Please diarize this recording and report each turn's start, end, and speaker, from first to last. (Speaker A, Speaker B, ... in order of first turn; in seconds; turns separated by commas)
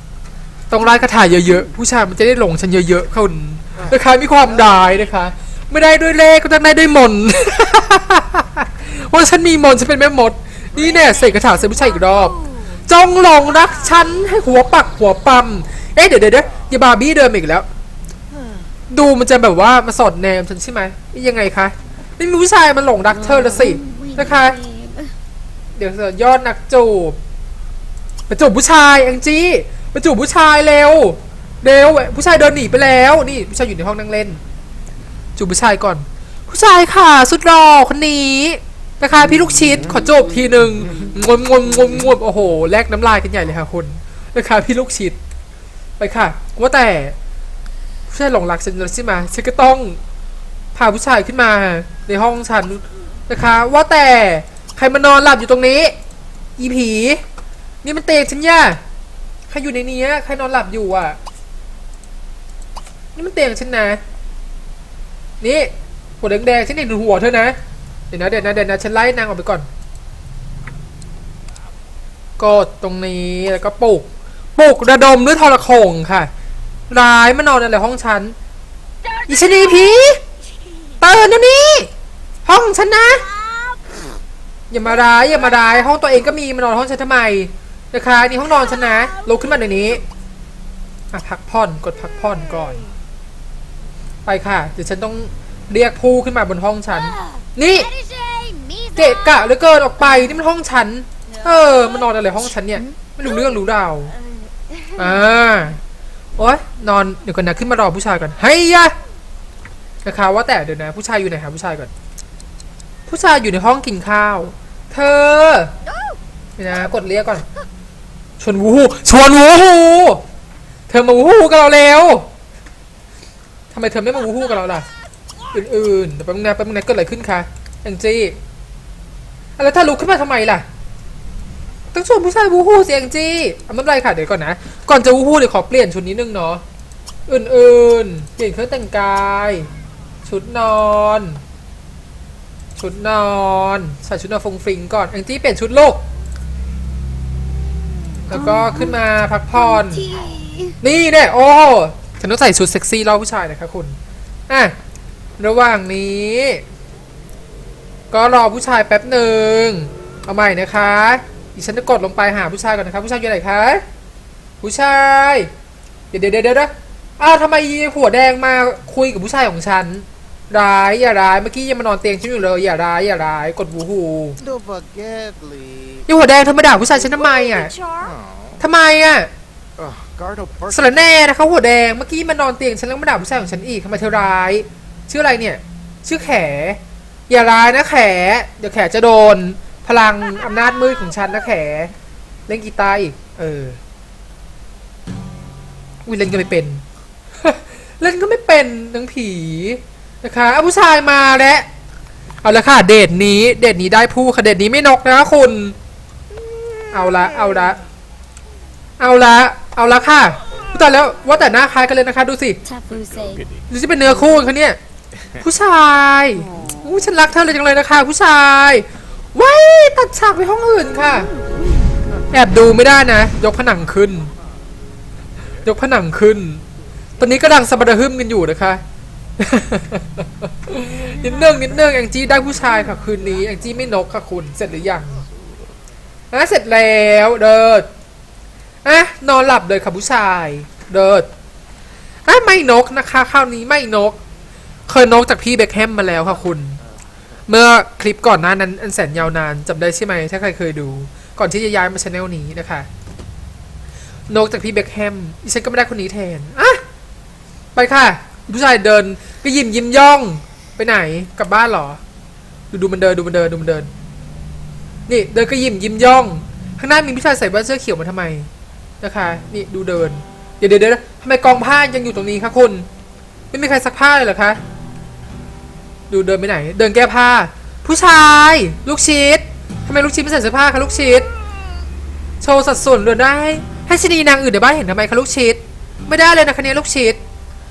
Speaker A: 0.7-17.7, Speaker B: 10.7-12.8, Speaker B: 13.4-14.2, Speaker A: 18.9-24.6, Speaker B: 23.1-25.1, Speaker A: 25.8-27.2, Speaker A: 28.3-34.4, Speaker A: 35.4-45.2, Speaker A: 46.0-47.1, Speaker A: 48.1-50.0, Speaker A: 50.7-55.9, Speaker A: 56.6-57.2, Speaker A: 57.8-58.8, Speaker A: 59.5-61.2, Speaker A: 63.1-64.0, Speaker A: 65.4-65.7, Speaker A: 66.2-67.5, Speaker A: 68.1-69.7, Speaker A: 72.4-76.3, Speaker A: 76.9-78.3, Speaker B: 79.0-80.9, Speaker A: 79.3-80.2, Speaker A: 81.0-81.9, Speaker A: 82.4-83.2, Speaker B: 82.9-84.0, Speaker A: 84.7-90.0, Speaker B: 85.1-85.8, Speaker B: 88.4-89.8, Speaker A: 91.1-92.8, Speaker A: 94.2-97.9, Speaker B: 96.9-100.4, Speaker A: 99.0-104.1, Speaker B: 101.3-105.5, Speaker A: 105.0-105.8, Speaker A: 106.4-108.9, Speaker A: 110.0-111.9, Speaker A: 113.1-115.7, Speaker A: 116.6-117.4, Speaker A: 118.4-120.2, Speaker A: 120.9-122.3, Speaker A: 123.7-124.9, Speaker A: 125.5-128.4, Speaker A: 129.6-130.6, Speaker A: 131.9-136.6, Speaker A: 137.3-139.7, Speaker A: 140.2-141.4, Speaker A: 142.8-146.0, Speaker B: 148.3-149.0, Speaker A: 148.3-150.1, Speaker B: 149.5-150.8, Speaker A: 150.8-154.0, Speaker A: 154.5-154.7, Speaker A: 155.4-156.6, Speaker A: 158.1-163.8, Speaker A: 164.6-165.5, Speaker A: 166.1-174.4, Speaker C: 174.4-176.1, Speaker A: 176.1-177.7, Speaker B: 177.0-178.1, Speaker C: 178.0-178.6, Speaker A: 178.6-179.3, Speaker C: 179.8-181.1, Speaker A: 180.7-191.9, Speaker A: 192.5-193.8, Speaker A: 196.1-196.8, Speaker A: 197.4-201.7, Speaker A: 202.4-205.8, Speaker A: 206.9-207.8, Speaker A: 209.0-212.6, Speaker B: 212.6-213.5, Speaker C: 213.0-213.6, Speaker A: 213.7-214.8, Speaker A: 215.4-221.3, Speaker B: 216.5-216.8, Speaker B: 221.0-221.9, Speaker A: 222.3-224.3, Speaker A: 225.6-226.6, Speaker A: 227.2-228.8, Speaker A: 229.4-235.2, Speaker B: 231.2-231.7, Speaker A: 236.3-237.9, Speaker A: 238.8-241.3, Speaker A: 242.3-244.2, Speaker A: 244.9-246.8, Speaker A: 247.5-252.9, Speaker A: 254.3-256.8, Speaker A: 257.7-262.0, Speaker A: 262.7-263.9, Speaker A: 265.1-268.5, Speaker A: 269.0-272.9, Speaker A: 273.5-274.6, Speaker A: 276.1-281.3, Speaker A: 282.4-287.2